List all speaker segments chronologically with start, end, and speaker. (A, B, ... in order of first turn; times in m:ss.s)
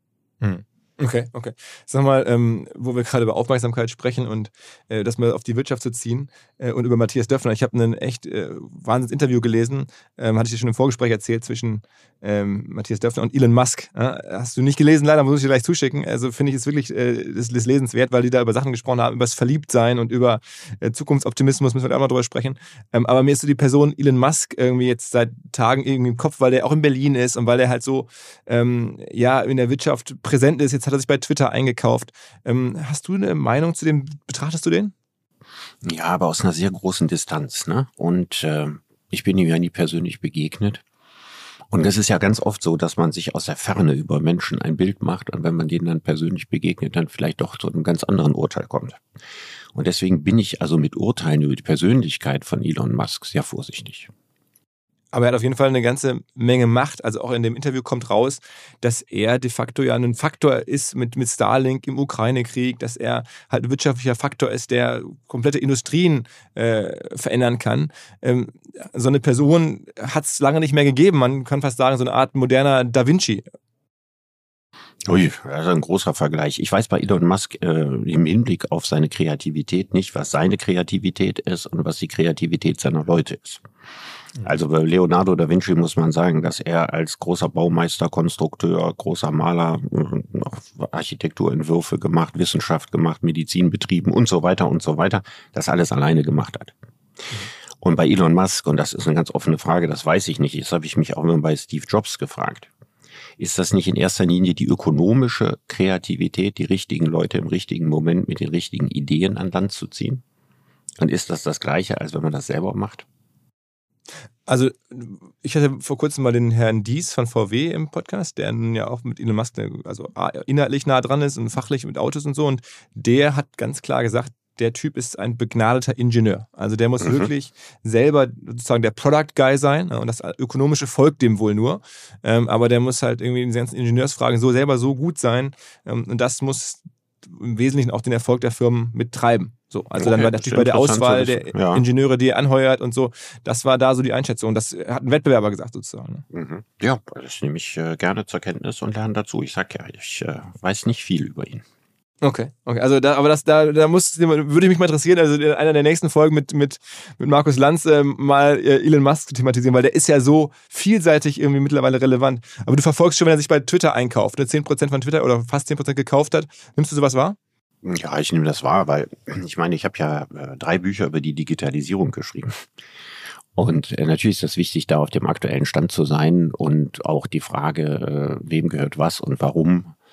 0:00.4-0:34.9 A
0:35.8-0:40.8 B
0:41.7-0:49.0 B
0:49.7-0:54.1 B
0:55.1-1:13.4 A
1:15.0-1:23.6 B
1:24.4-1:36.8 B
1:37.8-1:42.7 B
1:43.4-1:50.2 B
1:51.0-1:53.0 B
1:54.5-2:26.2 A
2:07.0-2:07.3 B
2:20.0-2:21.8 B
2:26.3-2:31.6 B
2:32.2-2:47.4 A
2:47.8-2:52.6 B
2:53.6-2:59.9 B